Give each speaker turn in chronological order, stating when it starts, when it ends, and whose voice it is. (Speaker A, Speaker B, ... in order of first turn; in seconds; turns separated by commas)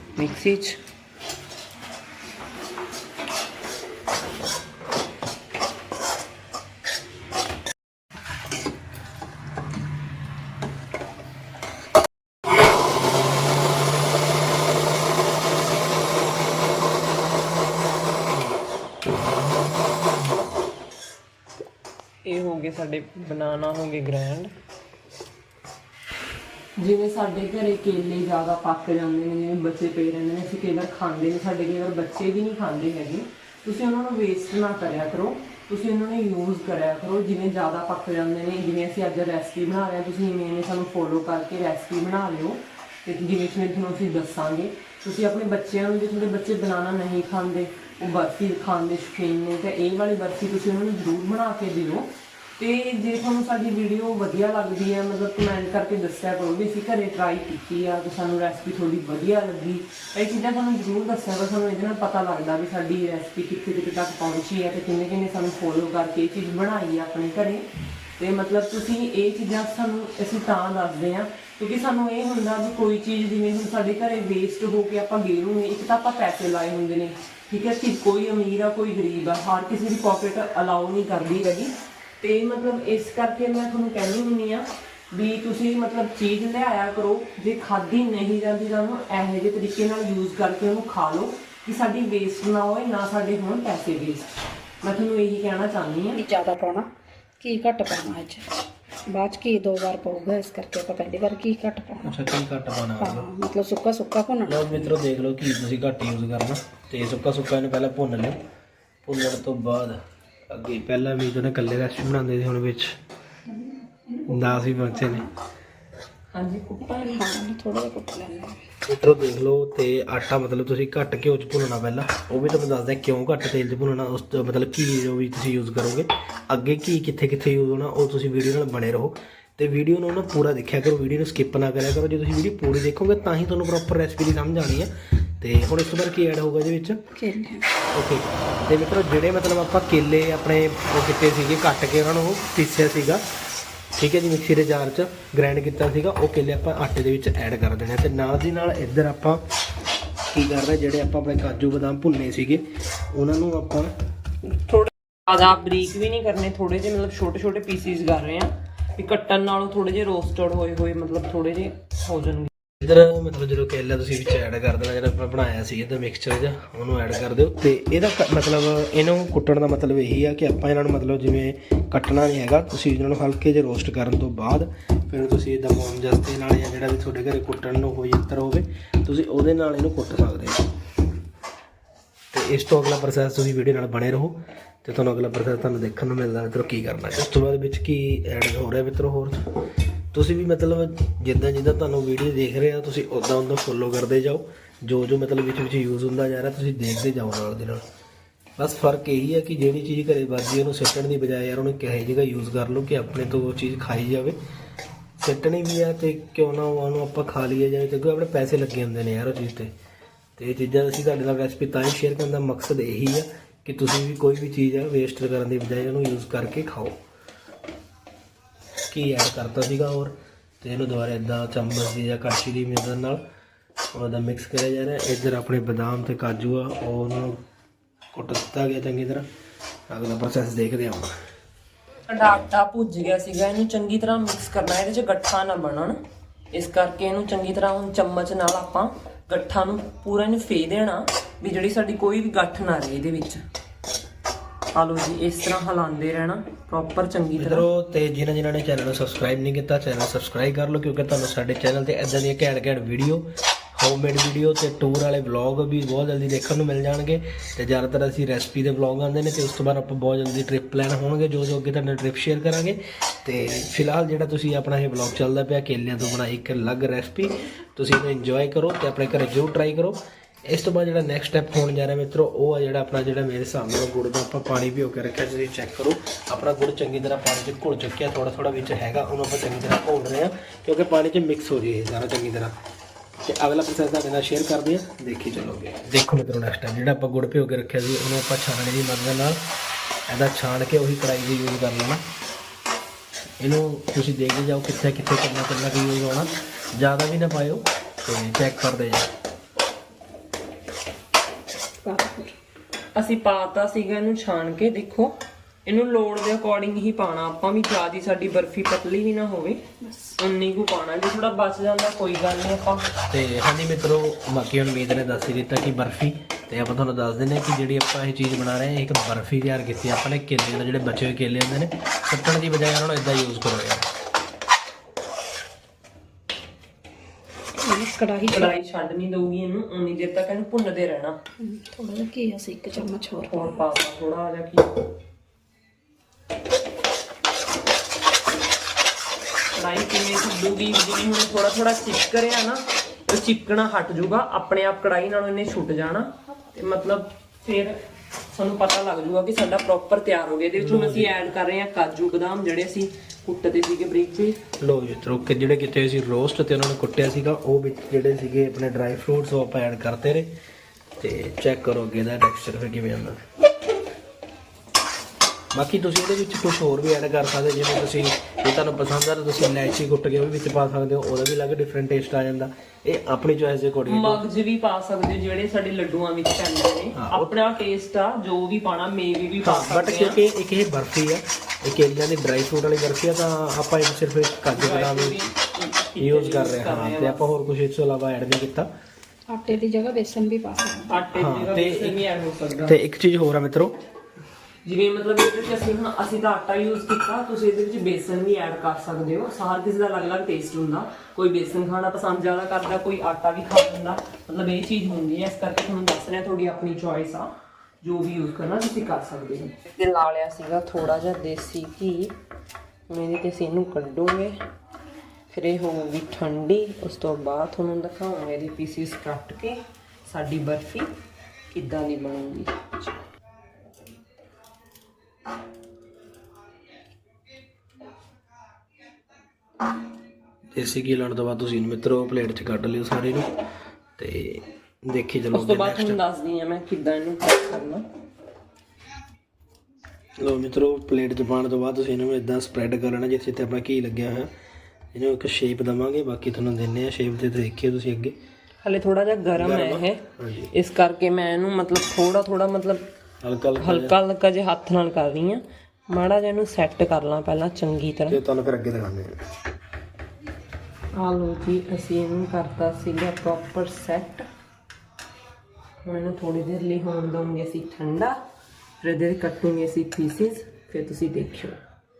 Speaker A: 0.1-0.8, Speaker A: 22.2-24.5, Speaker A: 26.8-67.7, Speaker A: 68.2-96.2, Speaker B: 96.1-96.9, Speaker B: 97.4-98.5, Speaker B: 99.1-102.2, Speaker C: 102.0-103.3, Speaker B: 103.0-104.9, Speaker C: 104.5-108.4, Speaker C: 109.0-110.0, Speaker C: 110.5-112.9, Speaker B: 114.1-115.3, Speaker C: 114.2-115.3, Speaker A: 116.3-117.2, Speaker B: 116.9-118.6, Speaker C: 118.8-137.0, Speaker B: 137.1-137.7, Speaker C: 137.9-143.2, Speaker C: 143.9-149.4, Speaker C: 150.3-153.9, Speaker A: 154.4-162.5, Speaker C: 162.8-180.6, Speaker C: 182.3-189.4, Speaker C: 190.1-197.8, Speaker C: 198.6-204.4, Speaker C: 205.2-209.7, Speaker C: 210.4-216.9, Speaker C: 218.9-223.2, Speaker C: 223.9-227.4, Speaker C: 228.1-229.2, Speaker C: 229.9-231.1, Speaker A: 232.1-236.0, Speaker A: 236.5-243.4, Speaker A: 244.7-247.7, Speaker C: 247.4-282.5, Speaker C: 283.2-289.4, Speaker C: 290.1-292.0, Speaker C: 293.4-299.1, Speaker B: 301.8-302.3, Speaker A: 302.9-309.6, Speaker B: 309.8-310.1, Speaker A: 310.2-312.9, Speaker C: 313.1-323.9, Speaker B: 327.6-328.5, Speaker A: 328.3-331.2, Speaker B: 331.4-333.6, Speaker A: 333.3-334.9, Speaker A: 339.5-347.8, Speaker A: 348.3-354.4, Speaker C: 350.6-351.1, Speaker C: 354.6-360.3, Speaker C: 361.0-363.2, Speaker C: 365.5-374.2, Speaker A: 373.9-380.2, Speaker C: 376.9-377.3, Speaker C: 379.4-385.2, Speaker A: 384.5-387.3, Speaker C: 386.0-388.7, Speaker B: 389.3-391.1, Speaker A: 390.9-392.8, Speaker C: 391.1-392.0, Speaker C: 392.6-393.8, Speaker A: 394.6-412.1, Speaker A: 412.9-414.4, Speaker A: 415.3-420.9, Speaker A: 421.5-423.0, Speaker C: 430.5-433.3, Speaker C: 434.0-436.0, Speaker A: 435.3-437.8, Speaker C: 440.2-444.3, Speaker C: 444.9-448.1, Speaker A: 448.6-452.9, Speaker C: 449.4-450.5, Speaker C: 453.2-453.9, Speaker A: 453.6-458.2, Speaker C: 458.1-459.1, Speaker A: 460.9-464.3, Speaker A: 465.8-468.1, Speaker A: 468.8-471.6